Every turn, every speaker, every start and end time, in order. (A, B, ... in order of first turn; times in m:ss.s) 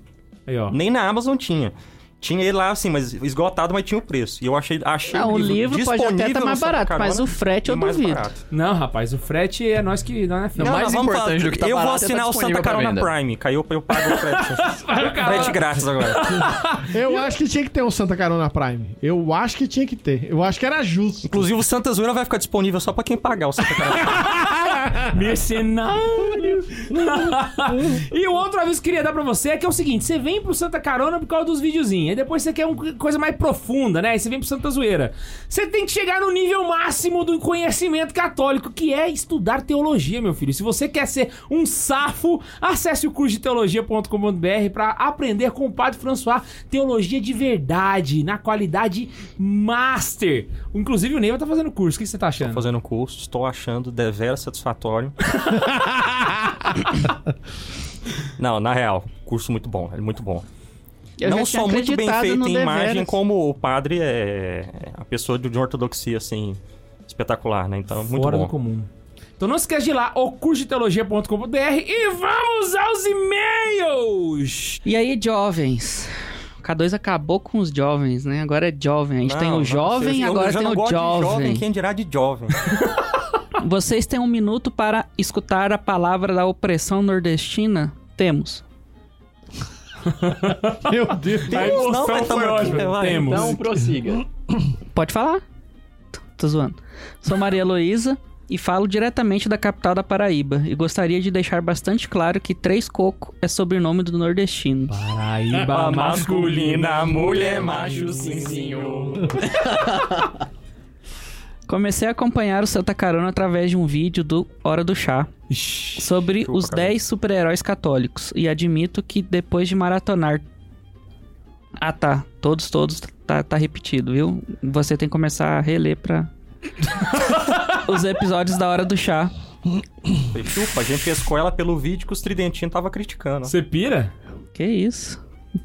0:00.5-0:00.8 A
0:00.7-0:08.4 B
0:05.1-0:08.3 C
0:08.5-0:10.7 A
0:10.6-0:13.1 D
0:10.6-0:16.5 B
0:13.9-0:17.1 A
0:16.8-0:21.4 E
0:21.2-0:24.5 B
0:24.0-0:52.6 A
0:24.6-0:25.1 E
0:52.4-0:55.4 B
0:55.7-0:56.5 E
0:58.4-1:00.4 B
1:01.2-1:03.2 C
1:01.2-1:08.5 B
1:08.1-1:08.9 A
1:09.4-1:14.8 A
1:14.8-1:21.6 C
1:19.2-1:22.7 B
1:23.6-1:28.6 C
1:30.2-1:33.6 A
1:30.8-1:32.6 E
1:31.5-1:33.6 B
1:33.1-1:34.2 D
1:34.9-1:35.4 C
1:36.3-1:45.0 C
1:44.9-1:47.1 A
1:45.5-1:49.5 B
1:47.3-1:50.4 D
1:51.7-1:55.3 C
1:55.5-1:56.0 A
1:56.0-2:00.4 C
1:56.3-1:57.0 B
2:01.8-2:06.3 C
2:07.7-2:09.3 C
2:10.3-2:13.5 B
2:13.4-2:14.1 A
2:14.5-2:15.2 C